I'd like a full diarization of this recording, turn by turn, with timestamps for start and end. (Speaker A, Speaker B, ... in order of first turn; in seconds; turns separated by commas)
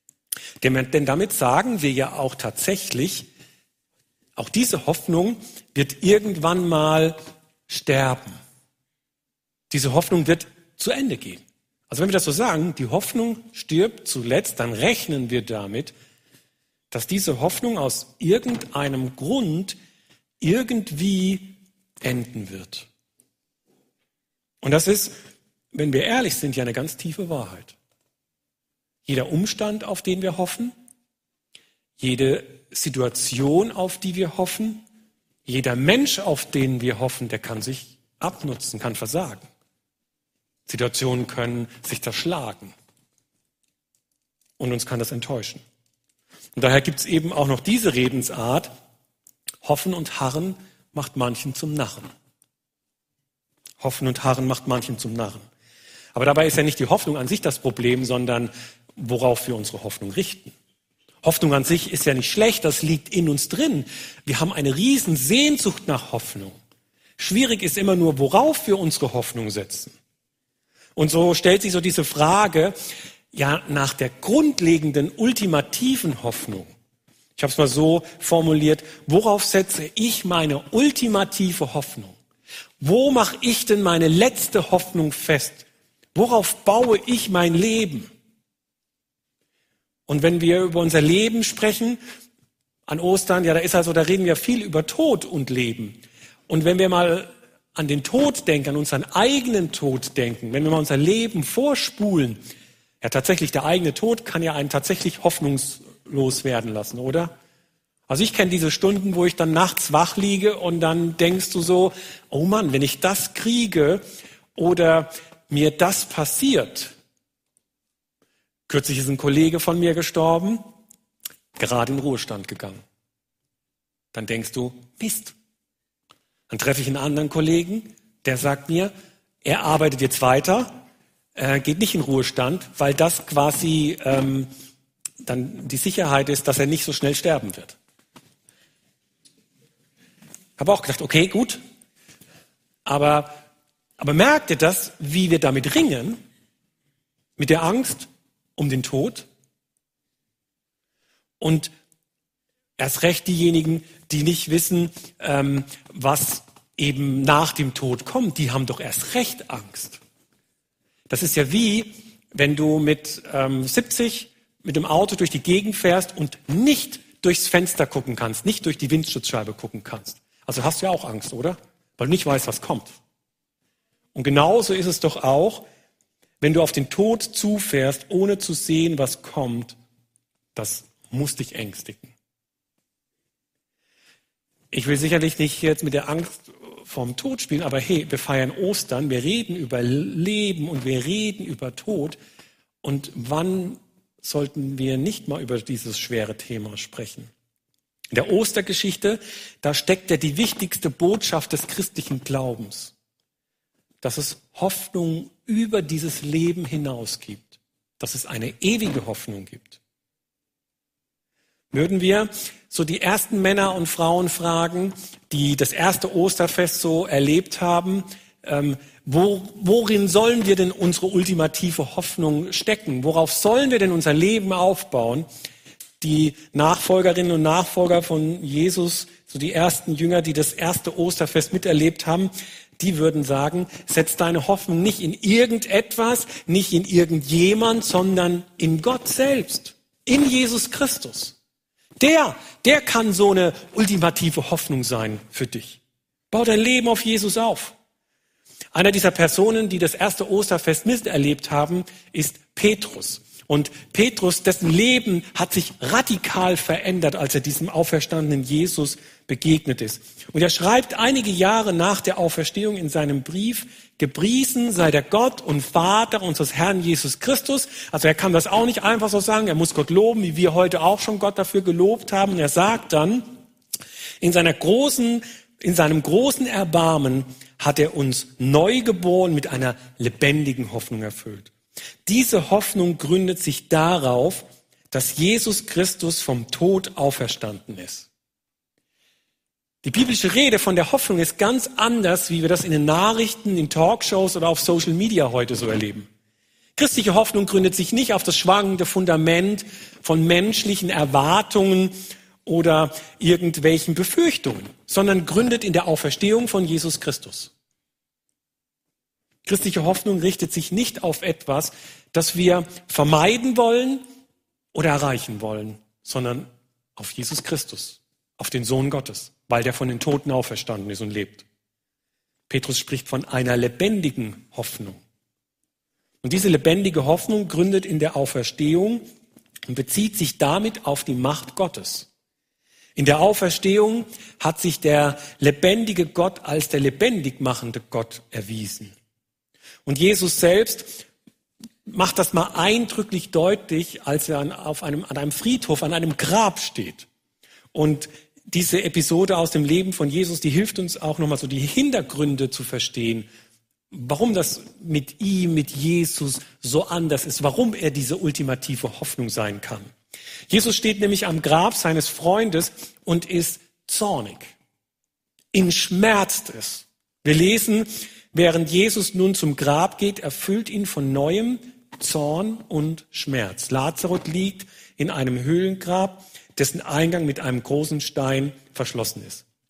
Speaker A: 0.6-3.3, Speaker A: 4.4-7.2, Speaker A: 7.7-8.4, Speaker A: 9.7-15.9, Speaker A: 16.9-19.8, Speaker A: 20.4-22.9, Speaker A: 24.6-25.2, Speaker A: 25.7-27.8, Speaker A: 29.1-30.8, Speaker A: 32.0-34.9, Speaker A: 35.5-39.5, Speaker A: 40.7-42.7, Speaker A: 44.6-45.6, Speaker A: 46.6-48.7, Speaker A: 49.6-52.1, Speaker A: 53.8-55.5, Speaker A: 56.1-60.5, Speaker A: 61.2-66.6, Speaker A: 67.2-70.0, Speaker A: 71.0-72.8, Speaker A: 73.3-76.7, Speaker A: 77.4-82.2, Speaker A: 82.8-88.1, Speaker A: 90.1-92.0, Speaker A: 92.9-102.4, Speaker A: 103.0-107.3, Speaker A: 108.1-114.0, Speaker A: 114.6-116.9, Speaker A: 118.7-120.7, Speaker A: 121.6-122.8, Speaker A: 124.1-125.3, Speaker A: 126.5-128.9, Speaker A: 129.4-130.8, Speaker A: 131.4-134.5, Speaker A: 135.2-137.8, Speaker A: 140.6-141.6, Speaker A: 142.9-143.4, Speaker A: 144.0-146.2, Speaker A: 147.4-149.3, Speaker A: 151.4-151.7, Speaker A: 152.8-160.0, Speaker A: 161.1-173.0, Speaker A: 174.2-175.7, Speaker A: 176.4-179.8, Speaker A: 180.6-182.1, Speaker A: 184.7-192.2, Speaker A: 192.8-197.3, Speaker A: 198.1-202.9, Speaker A: 204.0-209.8, Speaker A: 211.7-225.3, Speaker A: 226.0-241.3, Speaker A: 242.0-245.8, Speaker A: 246.3-247.8, Speaker A: 248.7-273.4, Speaker A: 274.2-281.5, Speaker A: 282.1-288.1, Speaker A: 289.8-296.1, Speaker A: 296.8-307.5, Speaker A: 309.5-314.0, Speaker A: 314.7-321.4, Speaker A: 322.5-325.0, Speaker A: 326.2-329.1, Speaker A: 329.7-332.1, Speaker A: 333.0-338.9, Speaker A: 339.9-341.0, Speaker A: 341.9-347.1, Speaker A: 347.7-353.3, Speaker A: 353.9-359.9, Speaker A: 360.5-364.5, Speaker A: 365.5-379.4